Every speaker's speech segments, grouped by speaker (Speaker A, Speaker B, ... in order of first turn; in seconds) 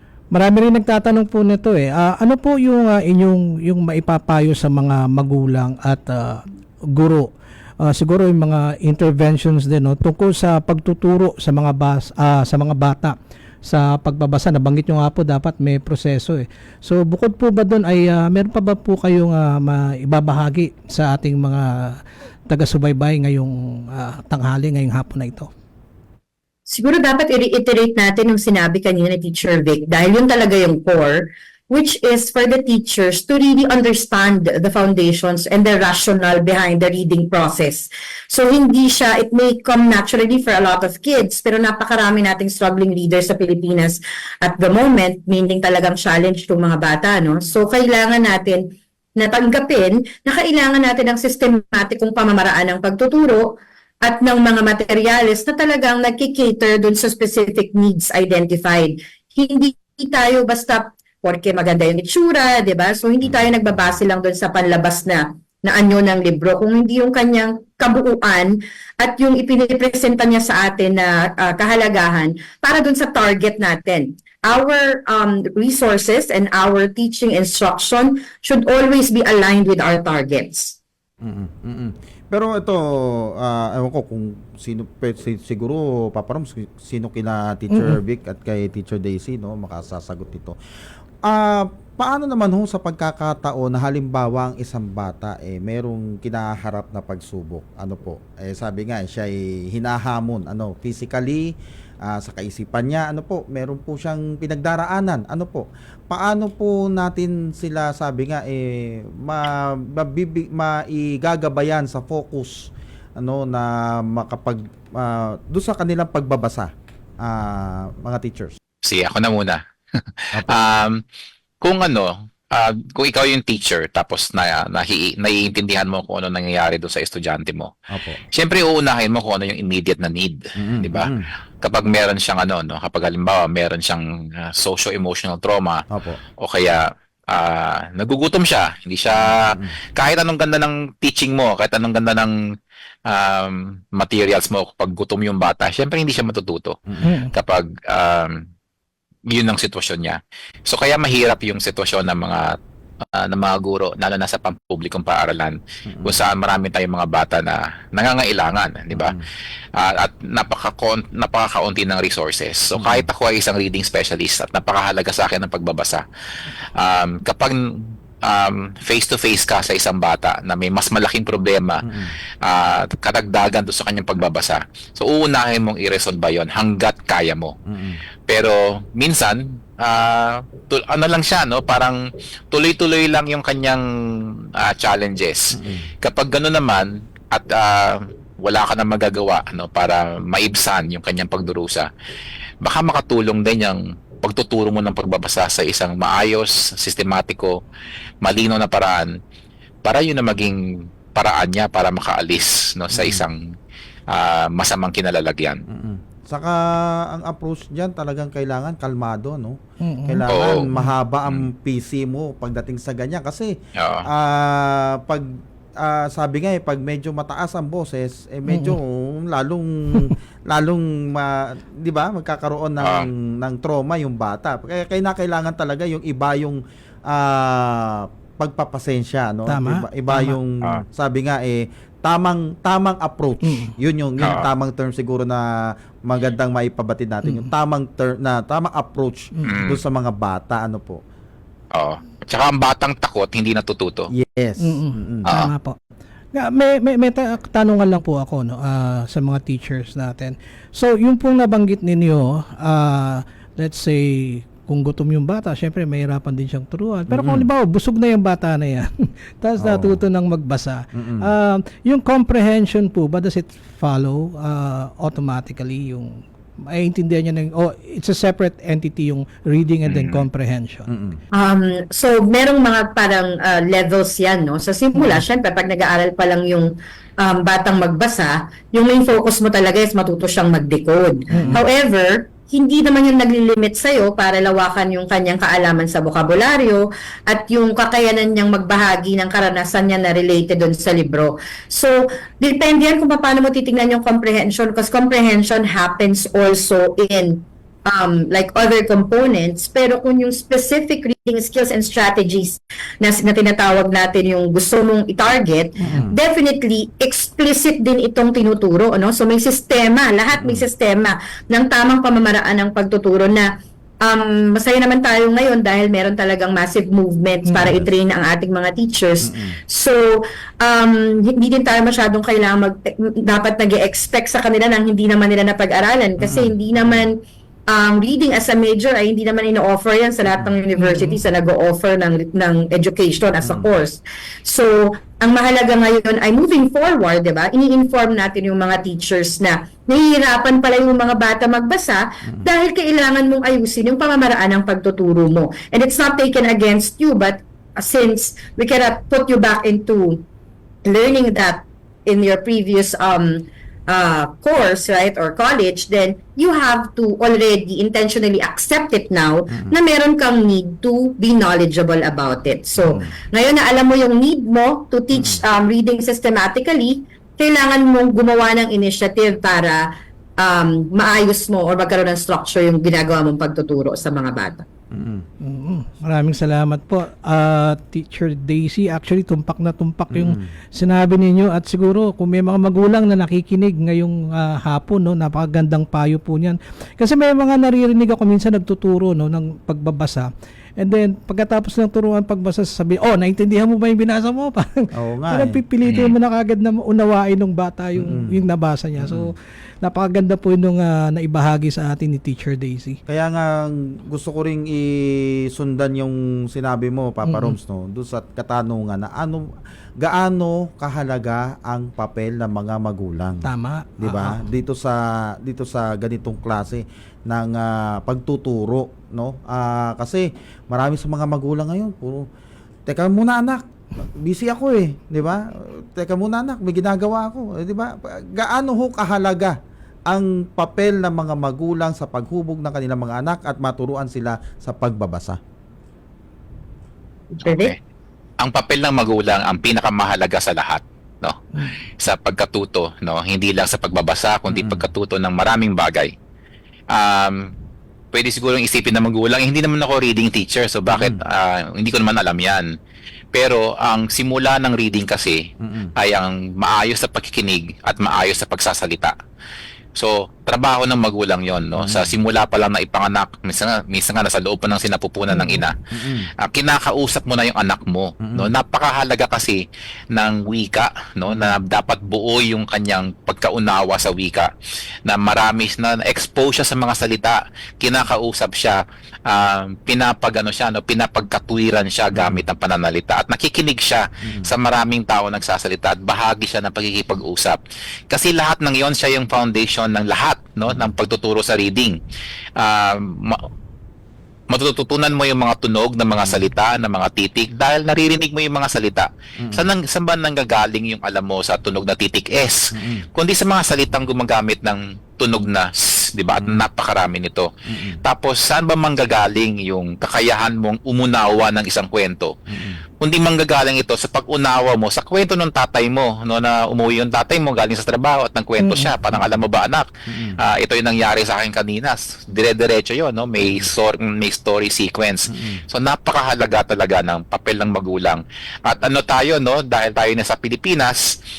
Speaker A: 0.3-7.3, 7.8-13.2, 13.7-22.0, 22.5-25.5, 87.7-88.0, 147.0-147.3, 209.8-210.2, 229.5-230.3, 233.4-233.7, 244.6-245.8, 246.3-270.9, 375.4-403.0, 407.2-407.6, 413.4-414.5, 518.6-518.9
Speaker B: 26.7-48.6, 49.2-80.8, 271.4-276.7, 277.2-313.5, 314.0-320.1, 320.6-327.2, 327.7-350.2, 350.9-369.8, 370.4-374.6, 437.3-437.7
Speaker C: 63.2-63.8, 81.2-82.8, 83.4-90.6, 91.3-101.5, 102.0-116.7, 117.2-118.6, 127.9-128.2, 130.6-131.3, 135.9-136.2, 139.3-139.7, 155.9-156.2, 158.9-159.2, 162.8-163.1, 171.8-172.2, 177.7-178.0, 185.5-185.9, 202.9-203.2, 205.7-235.5, 236.1-241.0, 244.1-245.3, 257.1-257.5, 259.6-260.1, 260.9-261.3, 270.9-271.2, 281.3-281.6, 305.8-306.1, 310.4-310.6, 319.2-319.6, 326.2-327.1, 333.4-333.7, 362.8-363.1, 365.1-365.4, 374.9-375.2, 380.1-380.5, 394.9-395.6, 397.9-398.4, 399.0-399.3, 403.1-413.5, 414.0-422.3, 422.9-429.6, 430.1-435.4, 444.5-444.9, 450.9-451.2, 455.6-455.9, 461.8-462.1, 465.4-466.3, 468.2-468.5, 471.3-471.6, 482.1-482.4, 484.3-484.5, 496.2-496.5, 499.4-499.7, 502.7-503.1, 507.7-508.0, 512.5-512.8, 519.1-519.5, 520.1-520.4, 523.4-523.7, 525.3-525.6
Speaker D: 118.8-121.0, 121.6-127.7, 128.3-131.1, 131.6-135.8, 136.4-142.3, 143.1-148.4, 149.3-152.5, 153.2-159.2, 159.8-166.0, 166.8-167.6, 168.3-171.8, 172.4-177.6, 178.3-182.0, 182.5-183.8, 184.6-185.5, 186.0-191.9, 192.6-197.6, 198.2-199.1, 199.8-200.6, 201.1-203.4, 204.1-205.6, 210.3-210.6, 213.8-214.1, 222.8-223.1, 239.4-239.8, 241.7-244.1, 245.3-245.5, 269.9-270.3, 395.8-396.2, 437.4-437.8, 438.4-446.1, 446.9-447.5, 448.1-452.7, 453.3-455.4, 456.0-459.1, 460.0-465.8, 466.4-469.6, 470.1-474.5, 475.1-487.6, 488.1-492.0, 492.6-493.4, 494.5-507.5, 508.0-512.4, 513.0-519.9, 520.4-531.0